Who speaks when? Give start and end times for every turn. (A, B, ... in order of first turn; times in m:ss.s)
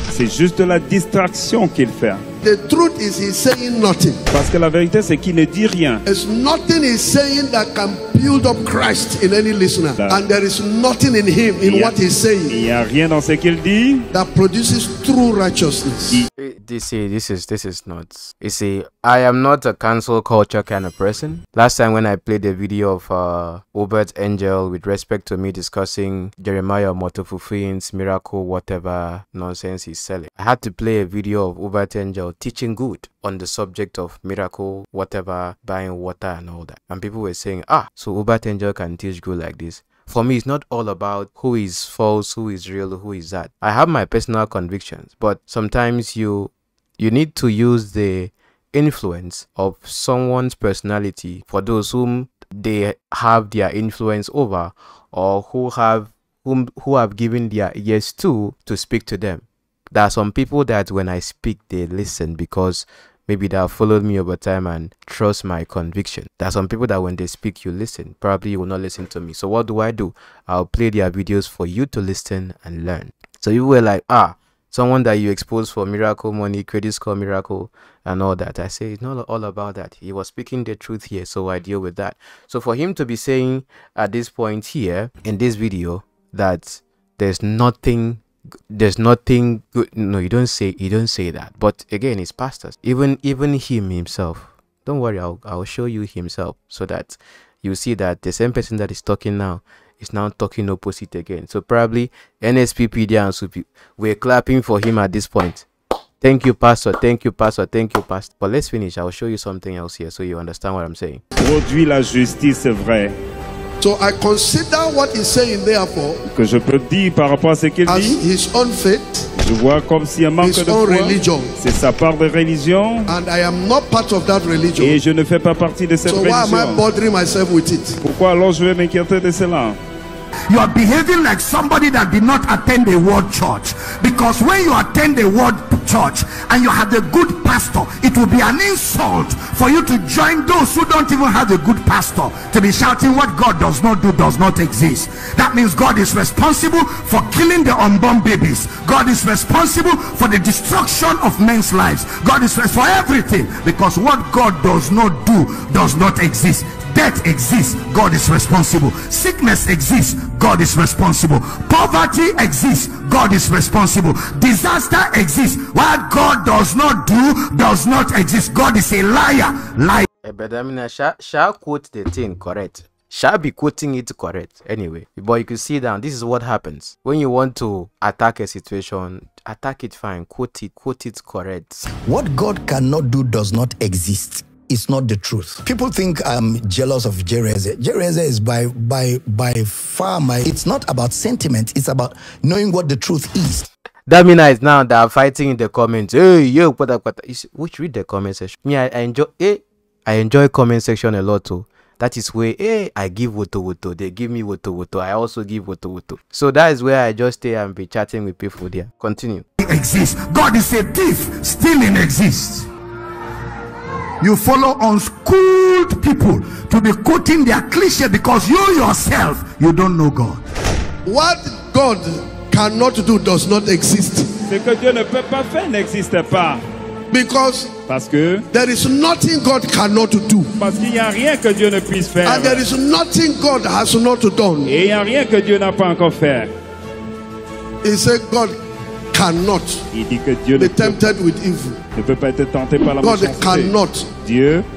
0:00.1-0:02.2 A
0:02.4-0:04.2 B
0:04.3-0:06.0 A
0:06.0-0:12.5 B
0:11.6-0:12.0 A
0:12.5-0:14.0 A
0:14.1-0:16.2 B
0:16.4-1:45.6 C
1:46.2-1:51.2 C
1:51.4-1:53.1 A
1:53.8-1:56.2 B
1:56.3-1:58.2 A
1:57.9-1:59.3 B
1:59.4-2:03.1 A
2:00.4-2:01.5 B
2:03.1-2:04.9 B
2:04.8-2:06.8 A
2:06.1-2:08.0 B
2:08.0-2:09.8 A
2:10.5-2:50.0 D
2:50.2-3:01.9 C
3:01.9-3:13.7 E
3:14.1-3:29.4 C
3:29.6-3:32.7 D
3:34.2-3:40.4 D
3:41.0-3:44.4 B
3:44.5-3:46.6 A
3:47.1-3:47.8 B
3:47.9-3:48.4 A
3:48.5-3:50.5 B
3:50.6-3:52.6 A
3:52.2-3:54.7 B
3:54.7-3:56.5 A
3:57.8-3:58.6 B
3:59.1-3:59.8 B
3:59.9-4:01.1 A
4:00.5-4:01.8 B
4:01.9-4:04.6 A
4:03.0-4:04.1 B